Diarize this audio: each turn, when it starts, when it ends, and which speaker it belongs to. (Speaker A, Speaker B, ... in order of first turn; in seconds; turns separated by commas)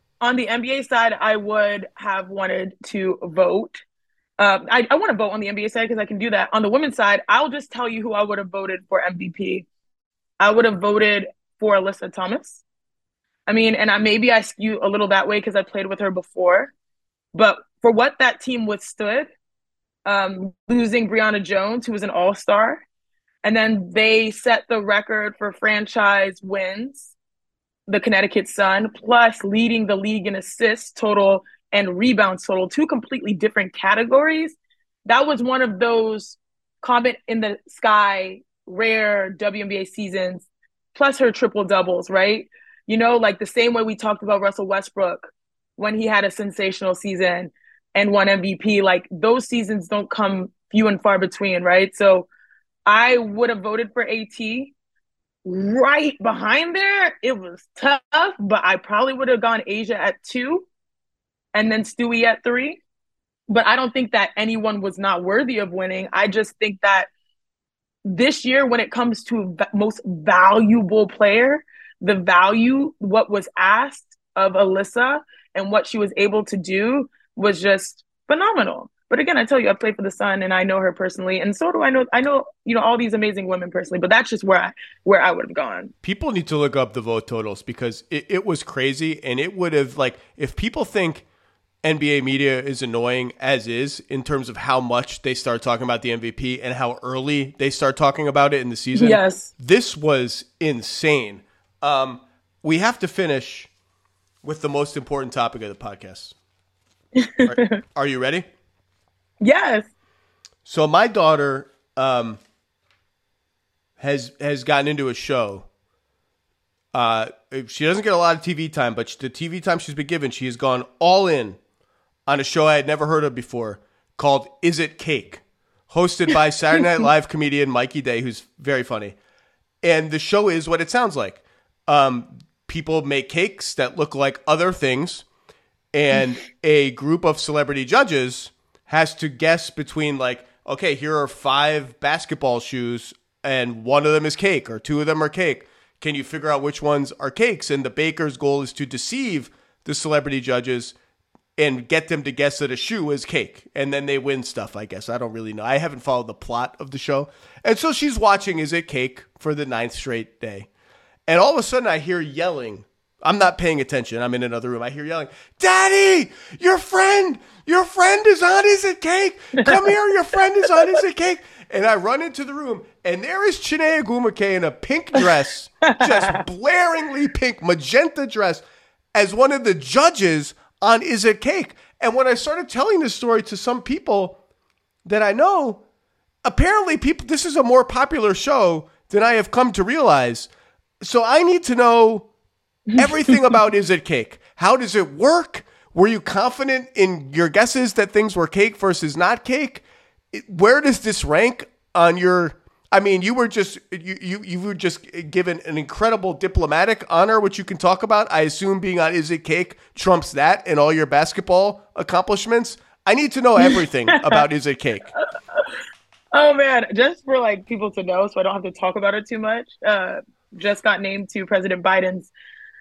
Speaker A: 0.2-3.8, Speaker A: 4.4-9.7, Speaker A: 10.4-12.6, Speaker A: 13.5-16.7, Speaker A: 17.3-19.3, Speaker A: 20.0-22.8, Speaker A: 23.4-27.1, Speaker A: 27.9-52.3, Speaker A: 52.9-54.7, Speaker A: 55.5-60.7, Speaker A: 61.5-62.8, Speaker A: 63.5-67.1, Speaker A: 68.0-85.9, Speaker B: 86.0-91.2, Speaker B: 91.8-103.7, Speaker A: 98.9-99.5, Speaker B: 104.4-106.3, Speaker A: 107.2-107.8, Speaker B: 107.4-108.5, Speaker A: 109.4-109.9, Speaker B: 110.7-112.4, Speaker B: 114.0-115.7, Speaker B: 116.9-121.6, Speaker B: 122.3-129.2, Speaker B: 129.8-135.2, Speaker B: 135.9-150.9, Speaker B: 151.6-160.7, Speaker B: 161.3-178.6, Speaker A: 175.8-176.4, Speaker B: 179.1-184.4, Speaker B: 185.0-185.8, Speaker B: 186.4-190.5, Speaker B: 191.0-192.3, Speaker B: 192.9-215.1, Speaker A: 213.6-214.4, Speaker A: 216.3-222.3